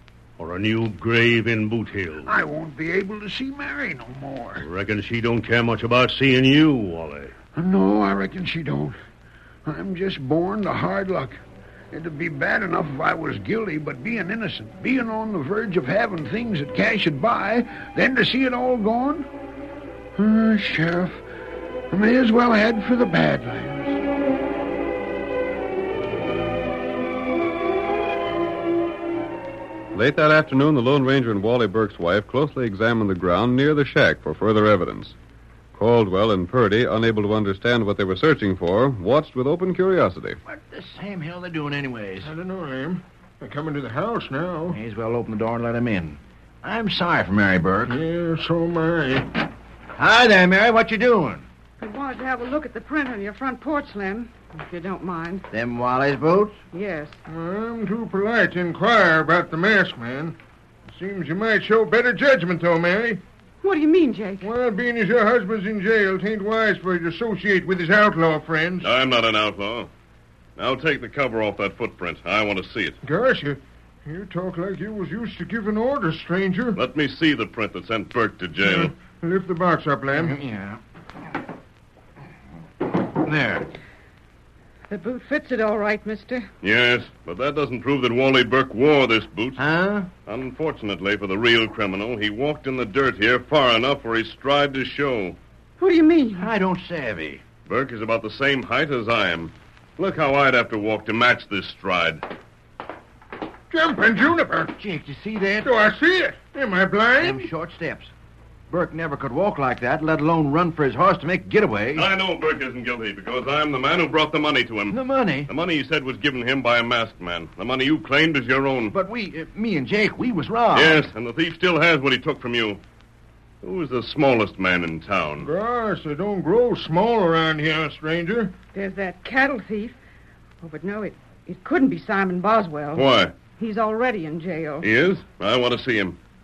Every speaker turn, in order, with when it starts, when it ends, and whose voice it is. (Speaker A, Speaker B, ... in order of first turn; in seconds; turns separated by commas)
Speaker A: 0.4-2.3, Speaker B: 2.3-4.7, Speaker A: 4.6-7.3, Speaker B: 7.5-9.0, Speaker B: 9.7-11.4, Speaker B: 11.9-19.3, Speaker B: 20.2-21.2, Speaker B: 21.9-24.0, Speaker C: 29.9-35.1, Speaker C: 35.7-40.4, Speaker D: 40.5-42.3, Speaker E: 42.2-44.8, Speaker D: 44.7-48.0, Speaker E: 47.9-49.3, Speaker D: 50.0-51.5, Speaker F: 51.8-55.5, Speaker D: 55.5-56.6, Speaker F: 56.7-57.2, Speaker E: 57.3-60.4, Speaker E: 60.9-63.2, Speaker F: 63.6-64.5, Speaker E: 64.4-68.9, Speaker G: 68.8-69.9, Speaker G: 70.6-73.0, Speaker E: 73.0-76.8, Speaker G: 76.8-78.9, Speaker E: 78.6-80.4, Speaker D: 80.2-80.8, Speaker D: 83.2-83.7, Speaker F: 84.9-86.5, Speaker G: 86.6-89.6, Speaker D: 89.6-90.1, Speaker G: 90.3-95.4, Speaker F: 95.8-96.5, Speaker D: 96.4-97.4, Speaker G: 97.7-102.2, Speaker E: 103.7-104.7, Speaker D: 104.8-105.7, Speaker E: 105.6-107.5, Speaker D: 107.2-108.1, Speaker D: 108.7-112.1, Speaker G: 111.9-118.9, Speaker D: 114.9-115.5, Speaker D: 118.9-121.1, Speaker G: 120.7-122.8, Speaker G: 123.6-125.5, Speaker E: 125.4-128.5, Speaker F: 128.7-130.0, Speaker F: 130.6-134.9, Speaker G: 132.9-133.3, Speaker G: 134.8-136.2